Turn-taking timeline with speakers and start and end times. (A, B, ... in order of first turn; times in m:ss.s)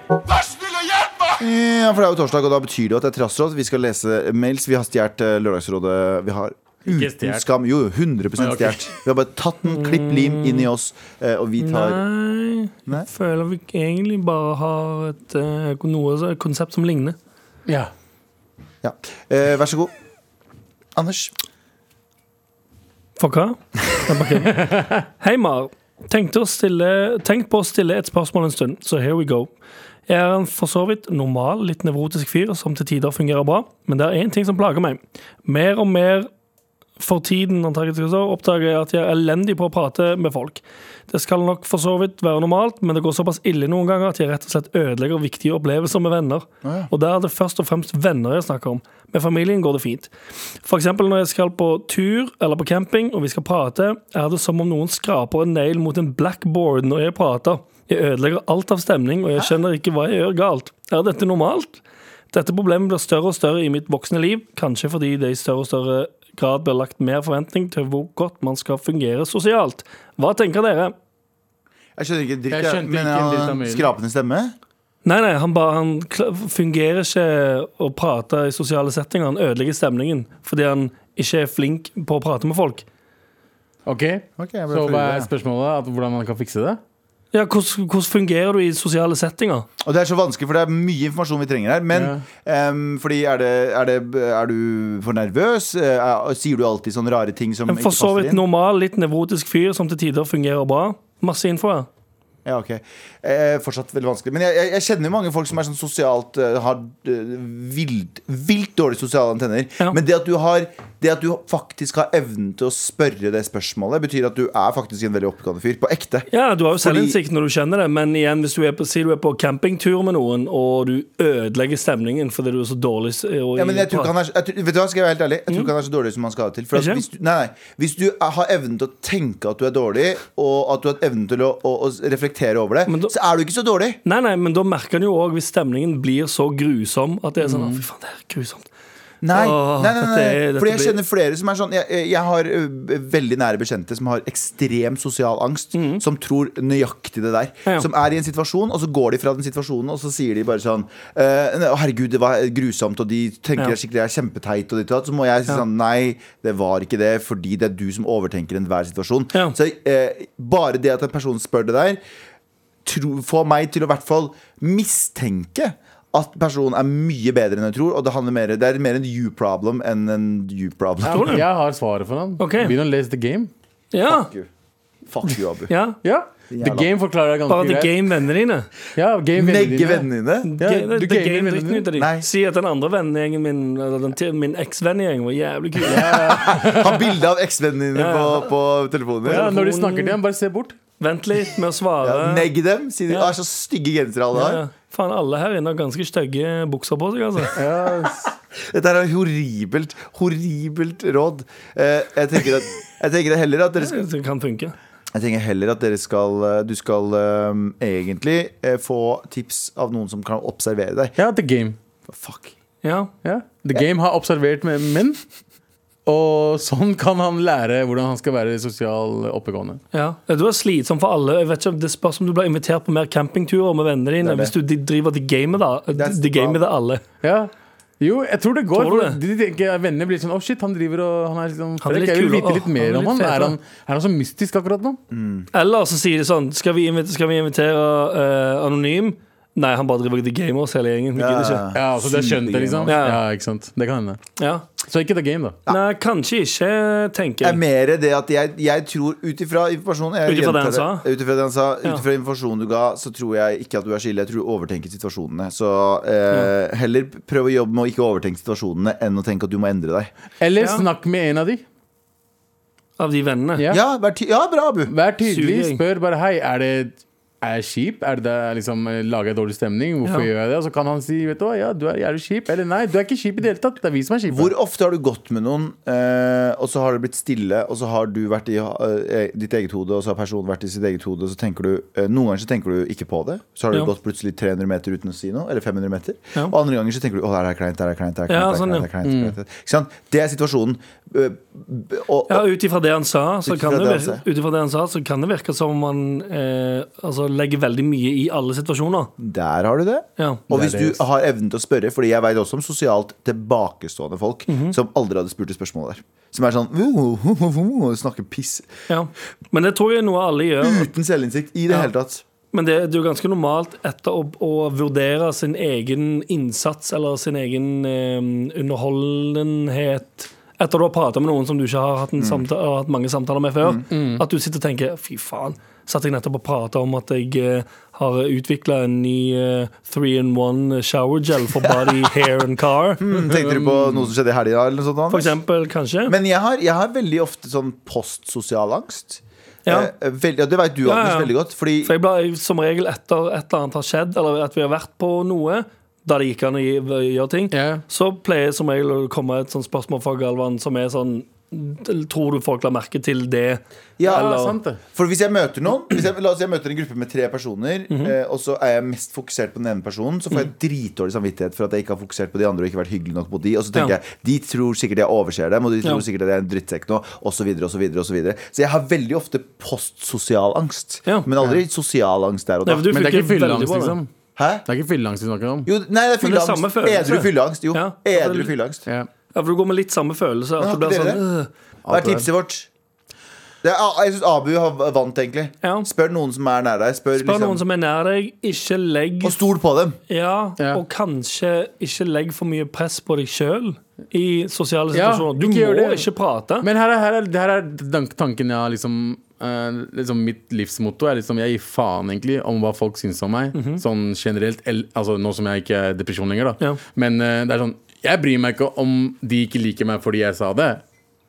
0:01.3-0:12.0 A
0:06.9-0:07.5 B
0:08.4-0:08.9 B
0:09.7-0:10.7 C
0:11.6-0:17.2 C
0:18.8-0:19.9 A
0:21.0-0:21.3 A
0:23.2-0:29.5 C
0:24.5-0:25.0 B
0:30.1-0:36.3 C
0:37.0-0:50.1 C
0:46.6-0:46.9 A
0:50.6-1:01.8 C
1:02.3-1:11.0 C
1:12.0-1:14.6 A
1:12.5-1:13.9 B
1:15.0-1:22.8 C
1:23.9-1:26.8 B
1:24.4-1:25.3 A
1:27.3-1:29.7 C
1:29.8-1:38.4 A
1:31.9-1:32.2 B
1:37.7-1:41.9 C
1:42.4-1:57.2 A
1:56.3-2:04.1 C
2:03.6-2:14.0 A
2:06.7-2:07.0 C
2:12.9-2:13.1 C
2:14.0-2:18.7 C
2:19.2-2:42.0 A
2:19.3-2:21.0 C
2:25.7-2:26.0 C
2:42.8-2:51.4 A
2:51.0-2:53.5 B
2:51.1-2:51.4 C
2:52.4-2:52.7 C
2:53.9-2:54.3 C
2:54.1-2:54.5 A
2:55.1-2:55.7 A
2:55.7-2:56.0 C
2:56.0-2:58.0 B
2:56.5-2:56.9 A
2:57.5-2:58.7 C
2:59.0-3:00.1 B
2:59.4-3:00.5 A
3:00.4-3:06.4 C
3:00.6-3:01.9 B
3:02.0-3:02.3 A
3:05.8-3:07.1 B
3:06.1-3:09.5 A
3:08.0-3:08.5 C
3:09.2-3:10.2 C
3:09.3-3:10.8 B
3:11.0-3:12.5 C
3:12.0-3:14.6 A
3:13.1-3:13.3 C
3:14.3-3:17.6 C
3:17.6-3:18.3 B
3:18.1-3:24.1 A
3:23.8-3:24.8 C
3:25.1-3:31.2 A
3:31.2-3:31.8 B
3:32.1-3:32.5 A
3:32.8-3:33.1 C
3:33.2-3:35.2 B
3:36.1-3:39.8 B
3:39.9-3:47.0 C
3:44.2-3:44.5 A
3:46.0-3:46.6 A
3:47.2-3:55.0 B
3:48.7-3:49.2 C
3:51.8-3:53.6 C
3:55.1-3:55.5 A
3:55.5-4:01.6 C
4:01.2-4:03.0 A
4:01.7-4:04.2 B
4:02.9-4:03.2 C
4:04.4-4:04.6 C
4:04.8-4:05.6 B
4:05.7-4:07.6 C
4:07.4-4:20.1 A
4:10.2-4:11.1 C
4:20.4-4:21.6 B
4:23.0-4:23.6 C
4:23.7-4:24.9 A
4:24.9-4:34.5 B
4:25.2-4:25.8 C
4:34.3-4:52.5 A
4:48.3-4:48.9 C
4:49.0-4:49.4 B
4:52.3-4:59.1 C
4:53.4-4:54.2 A
4:59.2-5:08.7 A
5:00.5-5:01.0 B
5:04.5-5:04.8 C
5:08.9-5:10.9 C
5:10.6-5:12.2 A
5:12.5-5:33.0 C
5:22.2-5:22.4 A
5:23.9-5:24.2 B
5:31.6-5:32.0 A
5:33.0-5:35.4 A
5:33.2-5:34.1 B
5:35.1-5:36.2 C
5:36.1-5:41.9 A
5:39.7-5:39.9 C
5:40.8-5:54.6 C
5:47.5-5:47.8 B
5:54.0-5:54.4 A
5:54.1-5:54.8 B
5:54.9-6:12.9 A
6:12.7-6:14.0 C
6:12.9-6:14.1 B
6:14.4-6:14.7 A
6:14.7-6:15.7 B
6:15.7-6:18.8 A
6:16.2-6:18.5 C
6:19.3-6:21.5 C
6:20.6-6:21.2 A
6:21.8-6:22.3 B
6:21.9-6:22.7 A
6:23.6-6:27.6 A
6:25.6-6:25.9 C
6:27.2-6:29.4 C
6:29.2-6:30.0 A
6:30.1-6:36.7 C
6:34.9-6:36.1 B
6:36.6-6:50.8 B
6:43.5-6:43.8 C